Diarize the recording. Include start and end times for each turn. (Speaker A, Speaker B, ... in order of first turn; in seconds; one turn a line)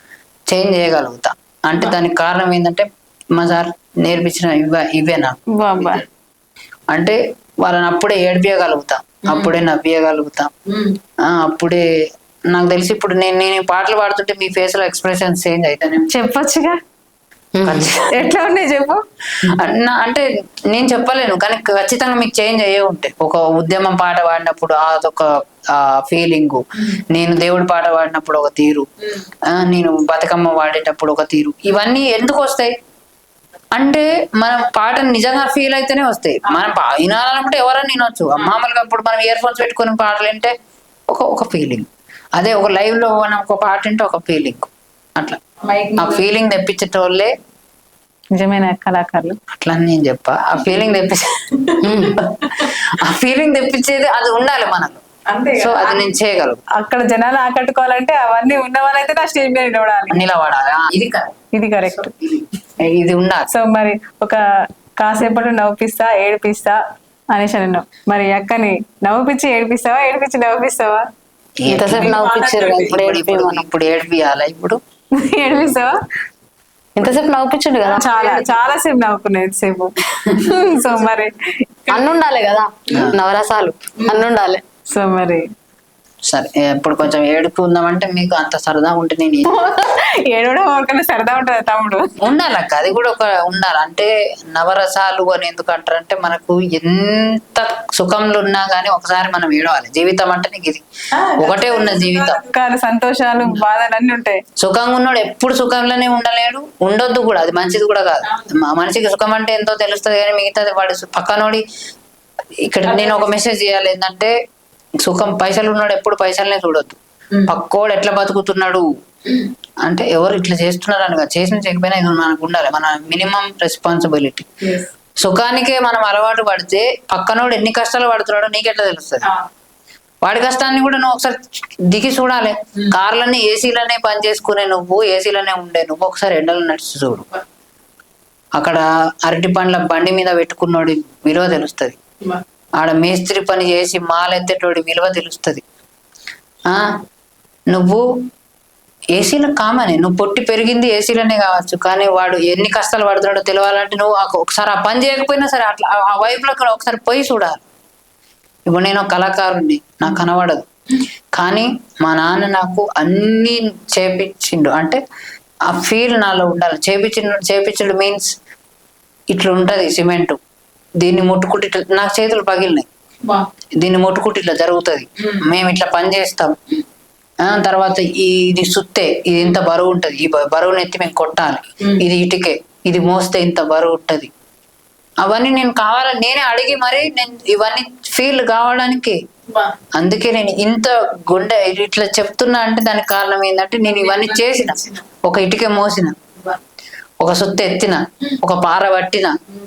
Speaker A: 0.5-6.0
Speaker B: 5.6-6.0
Speaker A: 6.9-10.5
Speaker B: 9.3-9.5
Speaker B: 10.7-10.9
Speaker A: 11.3-11.8
Speaker A: 12.5-16.1
Speaker B: 16.1-16.8
Speaker C: 17.6-17.9
Speaker A: 17.6-18.2
Speaker B: 18.1-19.0
Speaker A: 19.5-28.9
Speaker A: 29.5-32.7
Speaker A: 33.8-40.5
Speaker A: 41.1-45.4
Speaker B: 45.6-46.3
Speaker A: 46.0-47.3
Speaker B: 48.4-49.4
Speaker A: 49.6-51.3
Speaker B: 51.6-52.7
Speaker C: 51.8-52.2
Speaker A: 52.5-55.0
Speaker B: 55.3-56.1
Speaker A: 55.6-56.6
Speaker B: 56.8-60.2
Speaker A: 60.1-61.3
Speaker B: 61.5-62.1
Speaker A: 62.8-63.5
Speaker B: 63.5-64.4
Speaker B: 65.0-66.8
Speaker B: 67.3-71.0
Speaker A: 71.6-72.2
Speaker C: 71.7-73.7
Speaker B: 71.9-73.0
Speaker A: 72.8-74.8
Speaker B: 75.2-76.0
Speaker C: 77.0-78.6
Speaker B: 77.8-81.3
Speaker B: 81.8-82.2
Speaker C: 81.9-84.6
Speaker A: 82.9-83.2
Speaker B: 84.0-84.3
Speaker B: 84.9-85.5
Speaker A: 86.3-89.5
Speaker B: 89.4-92.1
Speaker A: 92.2-100.8
Speaker B: 101.2-104.4
Speaker A: 101.4-102.4
Speaker A: 104.6-111.6
Speaker A: 112.7-114.3
Speaker B: 112.9-113.3
Speaker A: 115.0-117.0
Speaker A: 117.5-118.8
Speaker A: 119.8-129.3
Speaker A: 130.2-131.4
Speaker A: 131.9-137.3
Speaker A: 138.6-142.0
Speaker A: 142.8-145.6
Speaker A: 147.7-148.0
Speaker A: 149.2-157.6
Speaker A: 158.7-160.6
Speaker A: 161.4-165.0
Speaker A: 165.7-168.3
Speaker A: 169.3-170.4
Speaker A: 171.0-172.9
Speaker A: 173.8-176.5
Speaker A: 177.5-184.3
Speaker A: 185.2-189.2
Speaker A: 190.0-196.2
Speaker B: 193.9-195.0
Speaker A: 197.2-199.3